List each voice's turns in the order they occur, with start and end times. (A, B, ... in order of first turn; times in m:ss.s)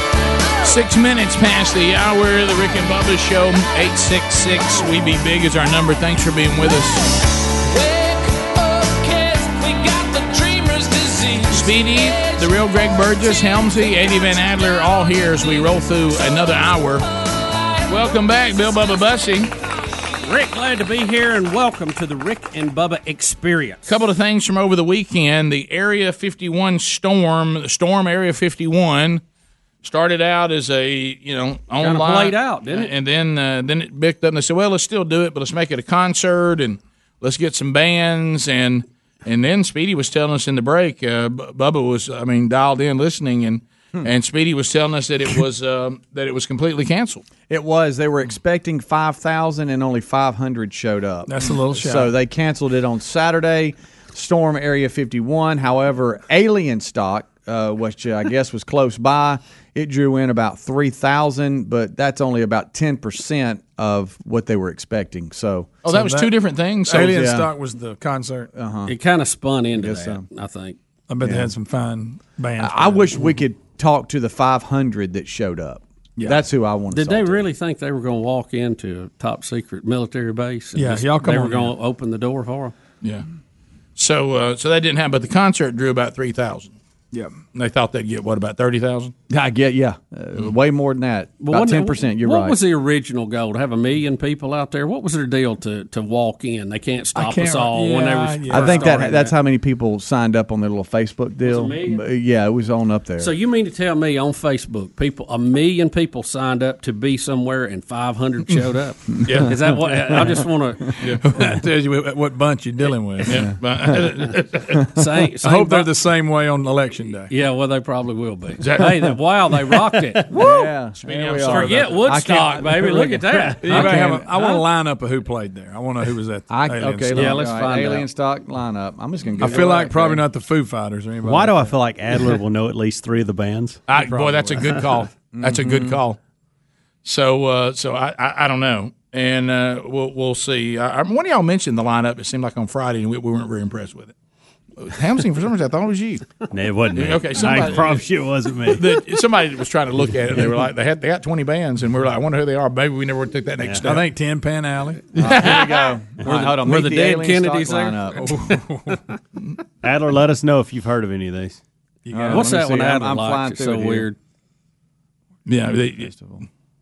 0:00.6-0:07.1 A
0:09.7-0:10.3 B
0:11.5-0:17.1 A
0:17.9-0:19.5 A
0:20.2-0:23.9 B
0:23.9-0:29.2 A
0:29.8-0:47.2 A
0:31.8-0:32.9 B
0:47.5-1:05.8 C
0:51.3-0:52.1 D
1:05.8-1:07.2 A
1:05.9-1:06.3 D
1:06.9-1:08.5 D
1:06.9-1:07.5 C
1:08.5-1:09.0 C
1:08.9-1:10.8 B
1:09.8-1:10.3 C
1:11.1-1:13.2 D
1:11.2-1:11.5 C
1:12.6-1:17.5 C
1:16.9-1:22.7 B
1:20.8-1:21.7 D
1:24.0-1:26.7 A
1:27.1-1:27.4 D
1:27.5-1:29.1 A
1:29.3-1:32.6 C
1:31.4-1:39.3 B
1:37.2-1:39.2 D
1:38.5-1:43.3 C
1:41.4-1:42.0 B
1:43.2-1:51.4 B
1:49.2-1:49.6 A
1:51.1-1:54.0 D
1:53.3-1:54.8 A
1:54.9-1:55.9 B
1:55.4-1:57.3 D
1:57.3-2:00.4 B
1:58.6-1:59.0 A
2:00.3-2:04.3 C
2:01.0-2:02.9 A
2:01.5-2:04.6 B
2:03.6-2:07.5 D
2:06.5-2:10.2 C
2:07.1-2:08.1 B
2:09.4-2:11.7 D
2:11.2-2:13.9 E
2:13.9-2:16.2 A
2:15.3-2:16.0 C
2:17.0-2:24.1 A
2:24.8-2:26.2 A
2:26.5-2:28.8 E
2:26.9-2:28.0 A
2:28.7-2:34.0 A
2:33.8-2:35.1 D
2:35.2-2:38.4 C
2:35.2-2:35.9 A
2:36.2-2:38.0 B
2:38.2-2:39.0 D
2:39.8-2:41.6 E
2:42.1-2:42.5 D
2:42.1-2:44.1 C
2:42.3-2:44.2 B
2:45.5-2:46.1 A
2:46.0-2:46.4 C